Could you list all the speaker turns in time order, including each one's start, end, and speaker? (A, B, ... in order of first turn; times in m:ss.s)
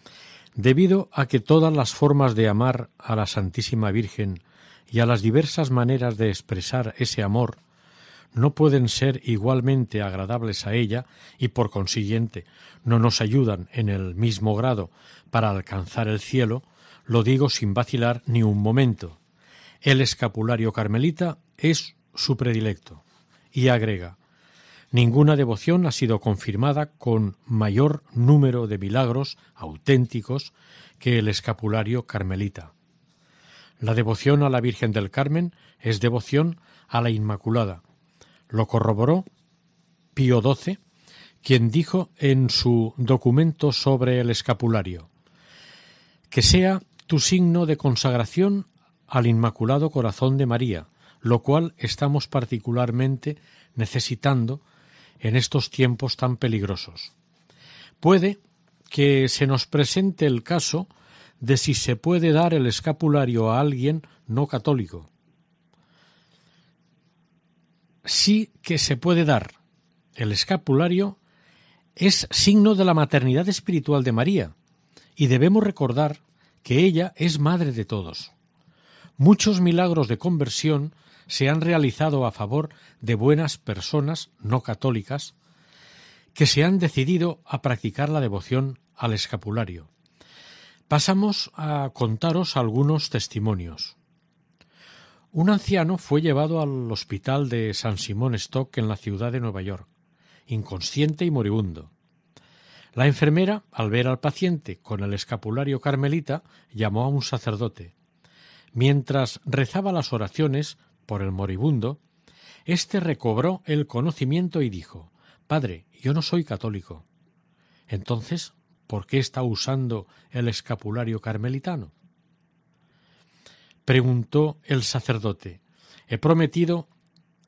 0:00.6-0:07.6 A
0:08.3-0:19.2 A
0:19.8-0:23.0 A
0:23.5-0:24.2 A
0:24.9-0:32.7 A
0:33.8-0:37.8 A
0:38.5-0:39.3 A
0:40.2-0:40.8 A
0:41.4-0:45.1 A
0:46.3-0:54.6 A
0:55.2-0:57.1 A
0:58.0-1:00.9 A
1:01.4-1:05.1 A
1:08.0-1:09.6 A
1:10.2-1:11.2 A
1:12.0-1:14.5 A
1:15.2-1:18.3 A
1:19.2-1:25.3 A
1:26.4-1:29.9 A
1:30.9-1:34.0 A
1:35.3-1:39.9 A
1:40.5-1:41.9 A
1:43.0-1:47.9 A
1:48.7-1:52.0 A
1:52.7-1:57.0 A
1:57.9-2:01.9 A
2:03.9-2:06.9 A